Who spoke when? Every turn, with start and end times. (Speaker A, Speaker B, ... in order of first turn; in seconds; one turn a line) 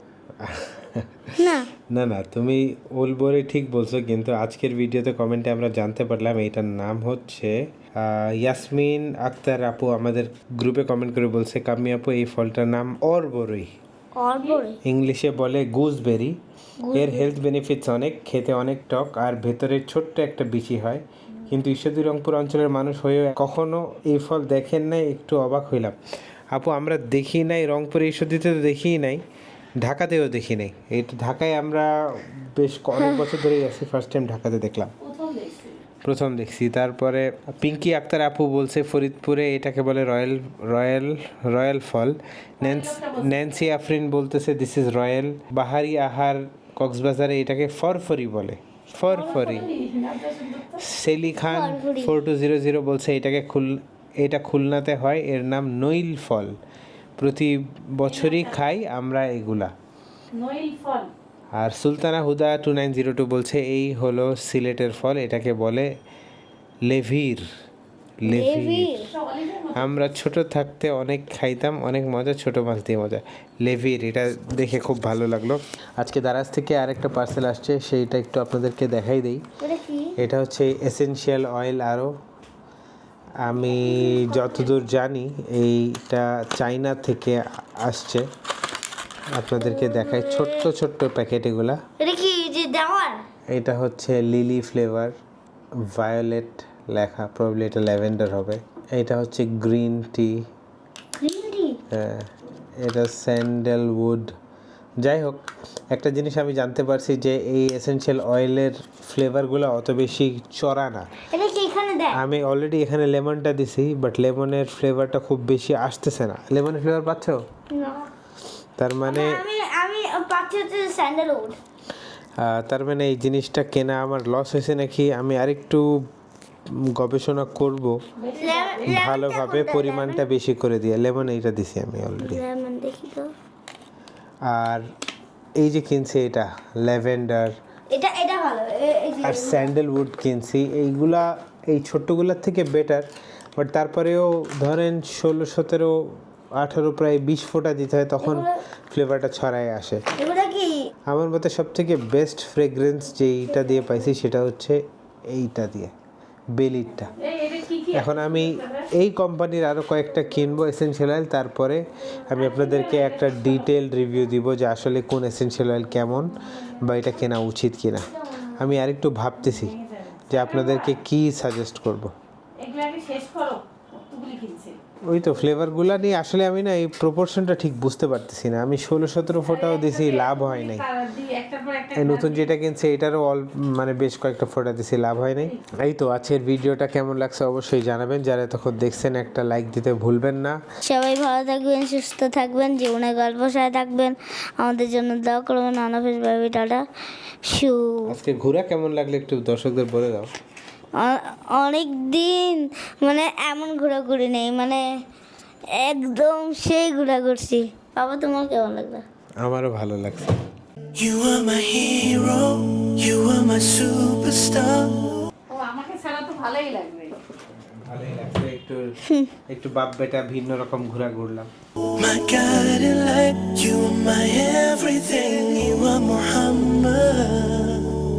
Speaker A: 0.4-13.7
Speaker B: 1.4-1.7
Speaker B: 14.1-14.8
Speaker A: 14.8-16.4
Speaker B: 16.8-17.3
Speaker A: 16.9-26.0
Speaker A: 26.5-29.2
Speaker A: 29.8-34.9
Speaker B: 33.0-33.3
Speaker C: 35.0-35.8
Speaker A: 36.0-49.7
Speaker C: 42.6-43.4
Speaker C: 49.1-50.8
Speaker A: 50.8-56.5
Speaker B: 51.4-52.1
Speaker A: 57.2-59.7
Speaker C: 58.0-58.6
Speaker C: 60.4-61.1
Speaker A: 61.6-65.9
Speaker A: 66.9-67.4
Speaker A: 68.2-68.9
Speaker B: 68.3-69.1
Speaker C: 69.1-70.0
Speaker A: 69.8-79.4
Speaker B: 79.6-80.2
Speaker A: 80.2-82.1
Speaker A: 83.4-88.3
Speaker B: 84.0-84.8
Speaker A: 89.3-91.8
Speaker B: 89.6-90.7
Speaker B: 92.0-93.2
Speaker A: 93.5-95.1
Speaker A: 95.8-100.4
Speaker B: 101.2-101.8
Speaker A: 101.9-102.3
Speaker A: 102.8-104.3
Speaker A: 105.0-111.1
Speaker B: 111.3-112.2
Speaker A: 112.1-117.4
Speaker B: 117.7-118.1
Speaker A: 118.8-119.4
Speaker B: 119.0-121.6
Speaker A: 122.4-125.9
Speaker A: 126.9-128.0
Speaker C: 128.2-128.9
Speaker B: 128.4-130.2
Speaker A: 128.8-132.4
Speaker B: 132.2-133.3
Speaker A: 134.5-134.8
Speaker A: 135.6-137.5
Speaker B: 137.9-139.7
Speaker A: 139.2-145.9
Speaker A: 146.6-150.0
Speaker B: 148.2-148.5
Speaker B: 150.2-150.8
Speaker A: 151.1-155.9
Speaker A: 156.6-157.1
Speaker C: 157.2-158.9
Speaker A: 157.9-169.7
Speaker C: 162.3-163.7
Speaker C: 169.4-170.9
Speaker A: 170.3-172.1
Speaker C: 172.6-174.8
Speaker A: 175.1-180.8
Speaker C: 179.4-182.5
Speaker A: 181.9-190.7
Speaker B: 190.8-196.8
Speaker B: 197.4-198.1
Speaker A: 198.1-200.3
Speaker B: 201.0-204.8
Speaker B: 205.7-209.0
Speaker A: 209.4-210.4
Speaker D: 210.9-215.3
Speaker C: 215.5-217.2
Speaker A: 217.8-218.9
Speaker A: 219.5-221.5
Speaker D: 222.0-228.0